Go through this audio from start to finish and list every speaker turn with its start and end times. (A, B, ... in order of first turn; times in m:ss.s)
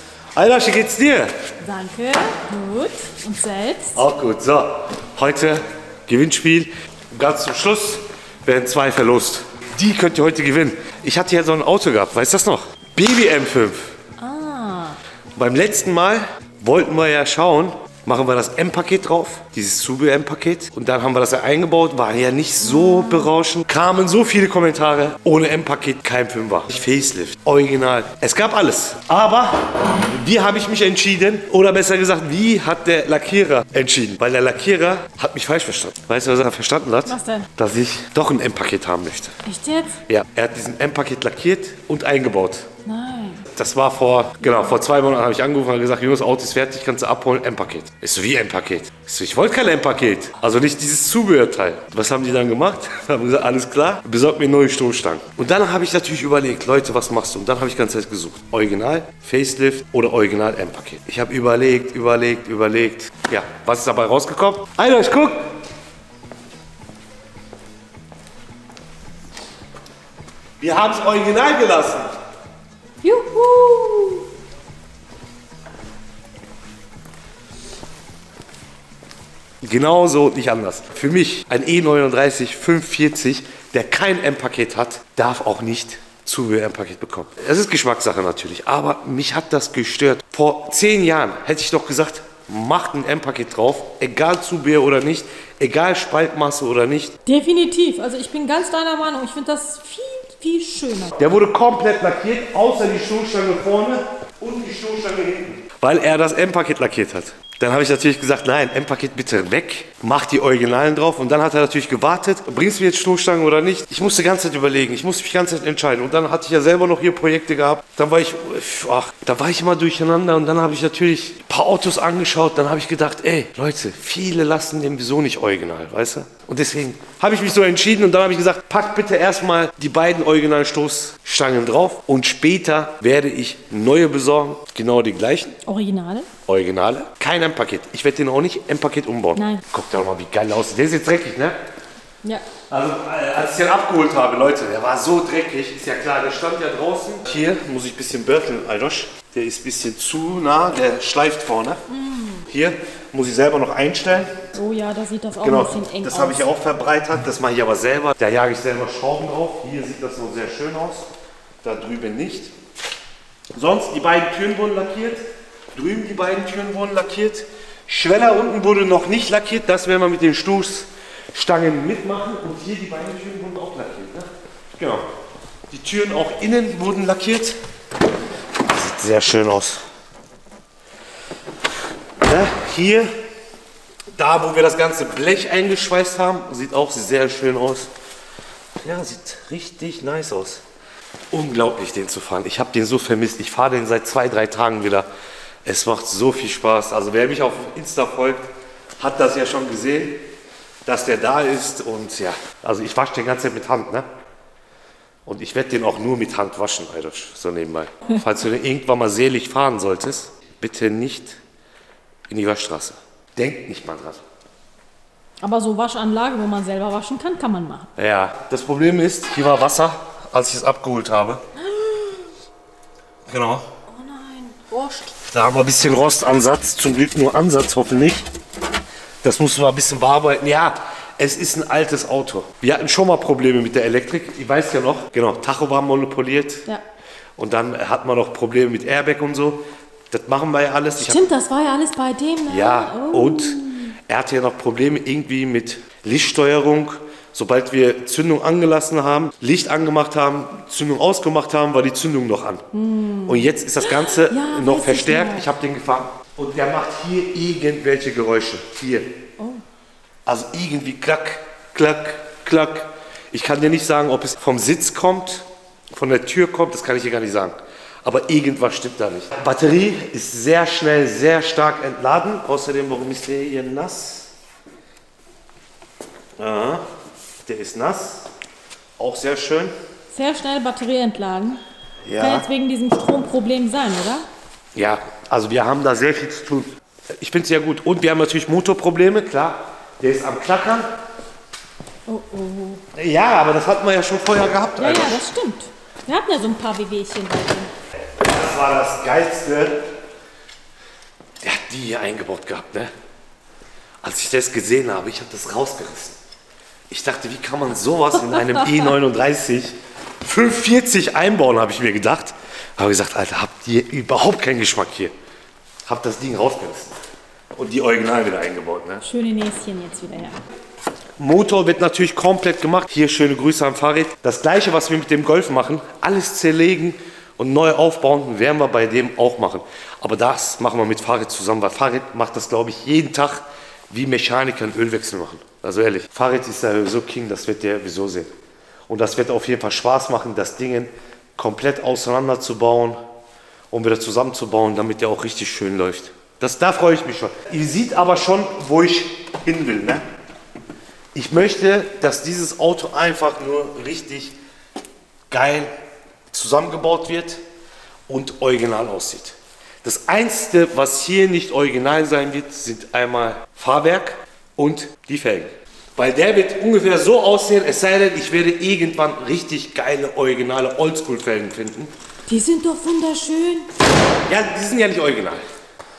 0:00.3-0:01.3 A
0:01.6-0:04.0 B
0:03.9-0:13.9 A
0:14.2-0:15.0 B
0:15.4-0:39.4 A
0:22.8-0:23.2 B
0:37.0-0:37.5 B
0:39.4-0:40.0 B
0:40.1-0:42.7 A
0:42.8-0:43.4 B
0:43.5-1:05.4 A
1:10.6-1:12.1 A
1:13.0-1:14.2 B
1:19.6-1:37.1 A
1:37.2-1:41.2 B
1:41.2-2:15.6 A
2:15.6-2:16.3 B
2:16.5-2:21.6 A
2:19.3-2:19.6 B
2:22.7-2:31.8 A
2:31.9-2:32.5 B
2:32.5-2:34.4 A
2:34.5-2:36.5 B
2:35.4-2:41.1 A
2:41.6-2:42.5 A
2:43.6-2:45.2 A
2:45.7-2:55.0 A
2:55.7-2:57.6 A
2:58.7-2:59.8 A
3:02.2-3:03.1 A
3:04.1-3:07.9 A
3:08.8-3:10.6 A
3:11.3-3:15.1 A
3:15.6-3:18.4 A
3:19.0-3:20.2 A
3:20.8-3:24.1 A
3:25.2-3:31.4 A
3:32.3-3:34.2 A
3:35.4-3:37.9 B
3:38.0-3:41.4 A
3:41.6-3:42.3 B
3:43.3-3:43.7 A
3:43.9-3:45.2 B
3:45.3-3:48.2 A
3:49.2-3:56.6 A
3:57.4-4:01.2 A
4:01.0-4:03.9 B
4:02.5-4:12.6 A
4:12.7-4:15.5 B
4:13.3-4:19.1 A
4:19.4-4:19.6 B
4:20.2-4:34.3 A
4:36.4-4:36.8 A
4:37.4-4:38.3 A
4:39.0-4:39.7 A
4:40.1-4:41.6 B
4:42.0-4:42.4 A
4:42.2-4:44.2 B
4:44.7-4:50.9 A
4:52.1-4:52.8 B
4:52.9-4:55.2 A
4:54.8-4:57.7 B
4:58.2-4:59.8 A
5:01.4-5:02.9 A
5:04.0-5:06.2 A
5:06.9-5:15.1 A
5:08.3-5:08.9 B
5:15.8-5:17.0 A
5:17.5-5:19.0 A
5:19.0-5:20.4 B
5:21.2-5:38.3 A
5:38.9-5:43.0 A
5:43.7-5:50.0 A
5:51.1-5:54.3 A
5:55.3-5:55.7 A
5:56.3-5:57.4 A
5:58.1-6:11.9 A
6:12.3-6:13.7 B
6:14.3-6:15.4 A